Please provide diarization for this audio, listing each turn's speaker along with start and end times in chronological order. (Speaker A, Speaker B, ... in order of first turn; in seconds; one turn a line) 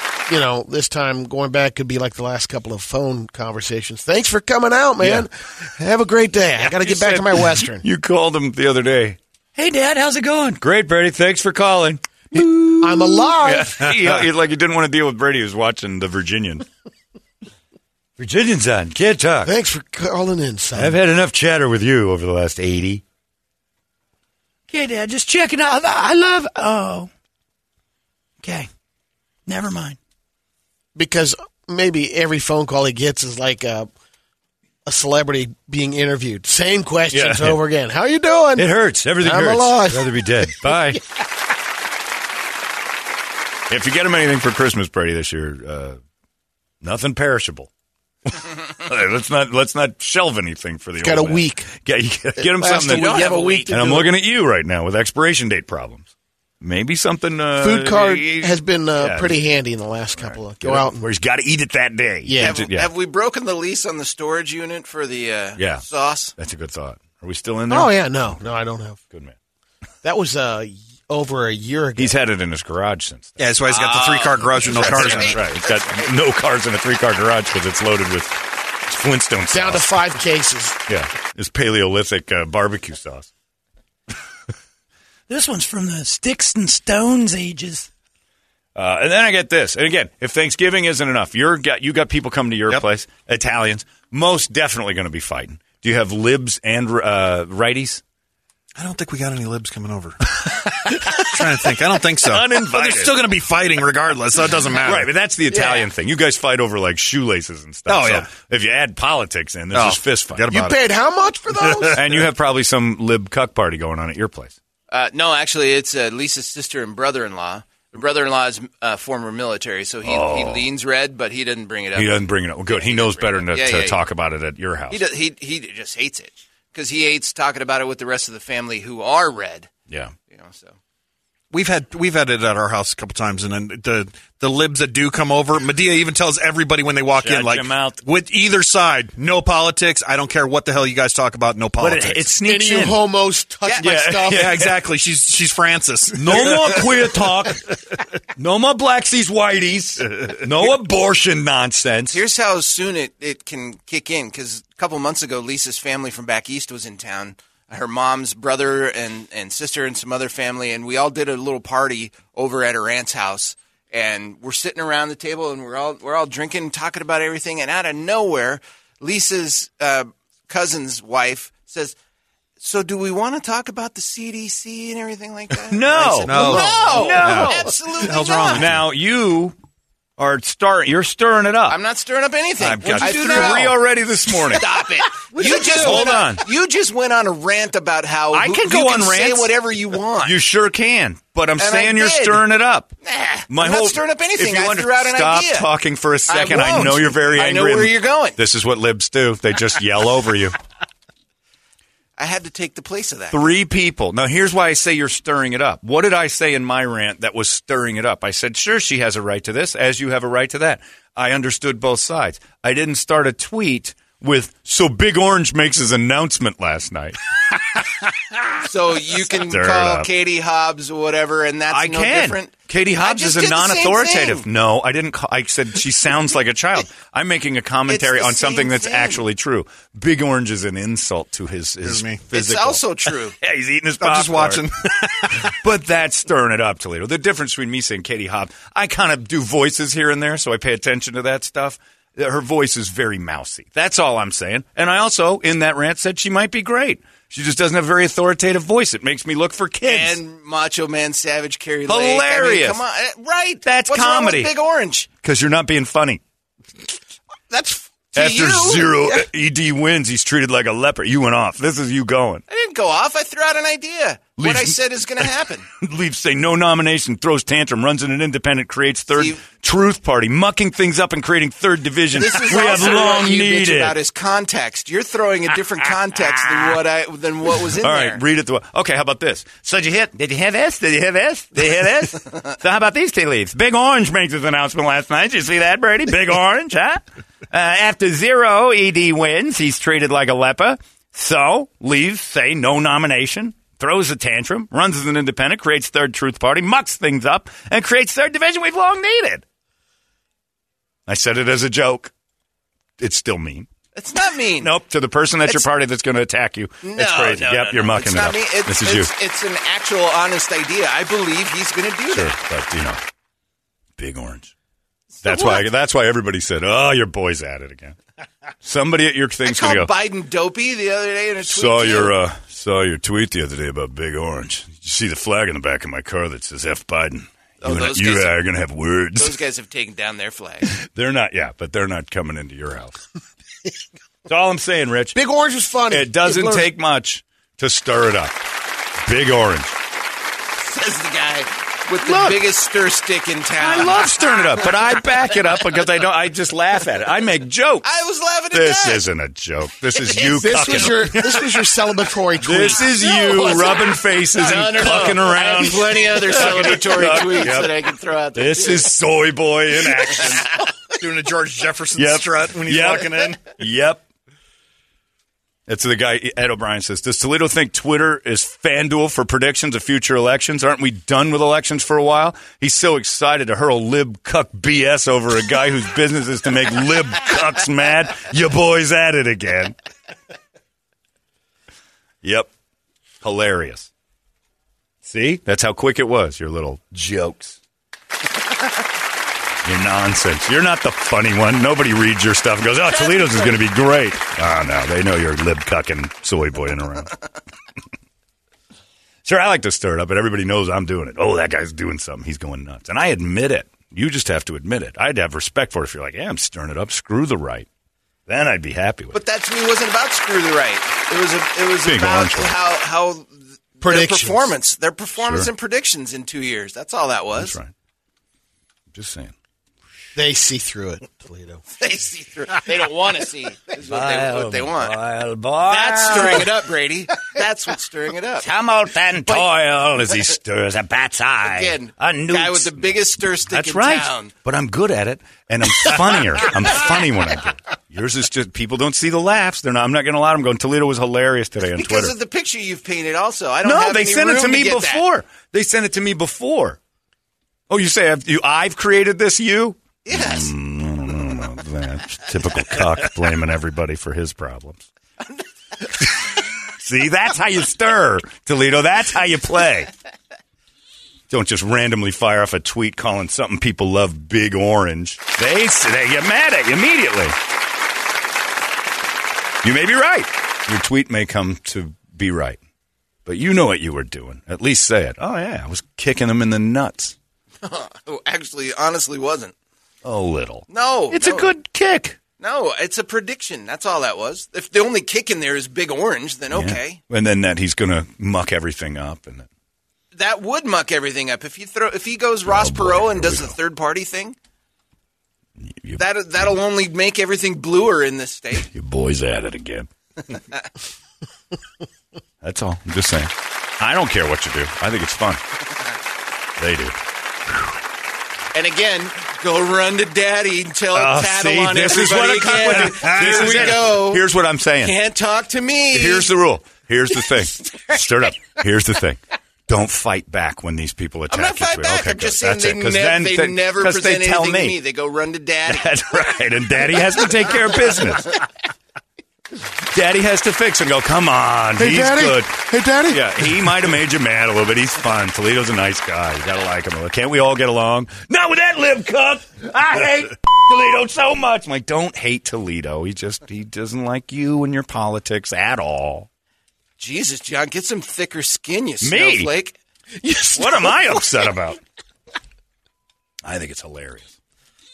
Speaker A: 0.3-7.8
Speaker B: 5.0-5.3
Speaker B: 6.6-16.7
Speaker A: 12.3-13.9
Speaker C: 13.8-14.2
Speaker B: 18.2-19.5
Speaker A: 19.4-21.0
Speaker B: 20.7-23.0
Speaker D: 24.7-27.1
Speaker B: 28.4-28.7
Speaker B: 29.5-29.9
Speaker D: 29.5-29.9
Speaker A: 30.9-33.9
Speaker A: 34.8-38.7
Speaker B: 37.1-37.6
Speaker B: 38.5-41.0
Speaker A: 39.2-40.7
Speaker B: 43.7-46.0
Speaker B: 46.8-47.7
Speaker B: 48.2-56.1
Speaker A: 51.0-51.7
Speaker A: 52.4-54.1
Speaker E: 52.7-53.7
Speaker B: 56.6-59.4
Speaker A: 57.6-61.0
Speaker B: 60.2-62.9
Speaker A: 62.2-62.5
Speaker E: 62.4-66.3
Speaker B: 65.5-65.8
Speaker B: 66.3-68.4
Speaker A: 67.7-69.0
Speaker B: 69.1-69.3
Speaker A: 70.0-72.2
Speaker B: 72.0-73.4
Speaker C: 73.4-75.4
Speaker E: 73.7-76.0
Speaker B: 74.6-79.9
Speaker A: 79.5-80.8
Speaker B: 80.9-83.3
Speaker D: 85.3-87.9
Speaker B: 86.2-86.9
Speaker B: 88.7-98.0
Speaker C: 98.8-105.1
Speaker B: 102.2-103.2
Speaker B: 104.8-110.7
Speaker C: 107.9-108.3
Speaker C: 109.7-110.8
Speaker A: 110.5-112.0
Speaker C: 111.6-112.2
Speaker B: 111.9-114.6
Speaker E: 114.9-124.0
Speaker B: 120.0-120.7
Speaker B: 121.9-125.0
Speaker E: 124.9-129.7
Speaker B: 129.9-130.1
Speaker E: 130.3-130.7
Speaker C: 131.5-142.3
Speaker B: 137.1-138.0
Speaker B: 141.8-143.0
Speaker A: 142.4-144.5
Speaker B: 143.8-144.8
Speaker C: 144.3-147.2
Speaker B: 146.1-147.7
Speaker B: 148.3-152.2
Speaker E: 152.1-171.9
Speaker E: 172.6-178.6
Speaker B: 175.6-177.7
Speaker C: 176.2-178.8
Speaker B: 178.5-179.6
Speaker B: 180.2-181.8
Speaker E: 181.7-183.8
Speaker B: 182.6-184.8
Speaker E: 184.4-190.4
Speaker B: 185.3-186.5
Speaker B: 188.3-189.5
Speaker B: 190.2-192.9
Speaker E: 191.6-192.4
Speaker E: 193.0-195.7
Speaker B: 193.5-200.6
Speaker E: 196.3-198.4
Speaker E: 202.2-203.4
Speaker B: 203.3-218.6
Speaker E: 218.6-224.4
Speaker B: 219.5-220.1
Speaker B: 221.7-232.8
Speaker E: 227.9-229.2
Speaker C: 231.8-232.2
Speaker E: 232.3-233.4
Speaker B: 233.4-234.7
Speaker C: 234.0-235.5
Speaker B: 235.4-250.2
Speaker E: 249.8-255.1
Speaker B: 251.9-252.8
Speaker B: 253.6-254.5
Speaker B: 255.2-256.2
Speaker E: 258.1-259.3
Speaker B: 258.1-262.4
Speaker E: 262.5-265.7
Speaker B: 264.4-264.7
Speaker B: 265.8-273.9
Speaker E: 269.1-269.4
Speaker E: 272.1-278.2
Speaker B: 276.1-276.8
Speaker B: 277.8-299.4
Speaker B: 301.1-302.1
Speaker B: 303.0-303.7
Speaker E: 303.9-304.7
Speaker B: 304.6-309.1
Speaker E: 306.8-312.3
Speaker B: 312.1-313.0
Speaker B: 314.0-314.5
Speaker E: 315.2-315.6
Speaker B: 315.2-318.0
Speaker B: 318.6-319.9
Speaker E: 319.4-322.1
Speaker B: 321.4-329.4
Speaker E: 327.6-328.4
Speaker E: 329.1-330.7
Speaker B: 330.7-333.0
Speaker B: 334.2-335.1
Speaker A: 335.1-336.7
Speaker B: 335.9-338.4
Speaker B: 339.0-339.8
Speaker E: 340.6-344.9
Speaker B: 342.0-342.4
Speaker B: 343.6-347.9
Speaker E: 347.8-349.1
Speaker B: 348.5-351.6
Speaker E: 349.9-351.0
Speaker A: 350.4-352.9
Speaker B: 352.4-360.5
Speaker E: 352.5-358.9
Speaker E: 360.0-360.5
Speaker C: 360.1-363.5
Speaker B: 361.9-364.0
Speaker B: 365.7-379.7
Speaker B: 382.2-382.5
Speaker B: 383.2-383.9
Speaker B: 385.0-387.6
Speaker B: 389.6-397.1
Speaker E: 393.0-393.5
Speaker B: 399.2-407.7
Speaker B: 408.3-409.2
Speaker E: 409.1-417.6
Speaker B: 411.9-412.5
Speaker A: 413.8-414.5
Speaker B: 415.2-415.5
Speaker B: 417.3-417.7
Speaker B: 418.9-419.3
Speaker A: 420.1-421.6
Speaker E: 421.8-425.0
Speaker B: 423.8-426.5
Speaker E: 425.6-428.5
Speaker B: 428.4-442.1
Speaker E: 431.4-434.3
Speaker E: 435.8-436.9
Speaker E: 441.8-445.0
Speaker B: 443.6-446.8
Speaker B: 447.7-454.9
Speaker E: 450.0-450.5
Speaker B: 456.3-459.9
Speaker B: 461.3-467.4
Speaker B: 469.6-472.6
Speaker B: 473.2-477.1
Speaker E: 477.6-479.5
Speaker B: 480.0-482.2
Speaker E: 480.7-481.5
Speaker E: 482.4-487.0
Speaker B: 486.5-489.5
Speaker E: 490.1-494.4
Speaker B: 492.4-493.5
Speaker B: 495.6-496.0
Speaker E: 496.0-498.7
Speaker B: 498.6-499.9
Speaker E: 500.3-500.6
Speaker B: 502.4-505.4
Speaker B: 506.6-507.7
Speaker E: 508.5-514.2
Speaker B: 510.9-515.0
Speaker E: 514.8-516.3
Speaker B: 515.9-524.8
Speaker E: 517.6-517.9
Speaker E: 521.3-526.0
Speaker B: 525.7-528.3
Speaker B: 529.8-546.3
Speaker A: 531.8-533.5
Speaker E: 547.0-549.8
Speaker B: 549.0-549.5
Speaker A: 550.2-551.1
Speaker B: 550.5-551.8
Speaker B: 553.5-554.3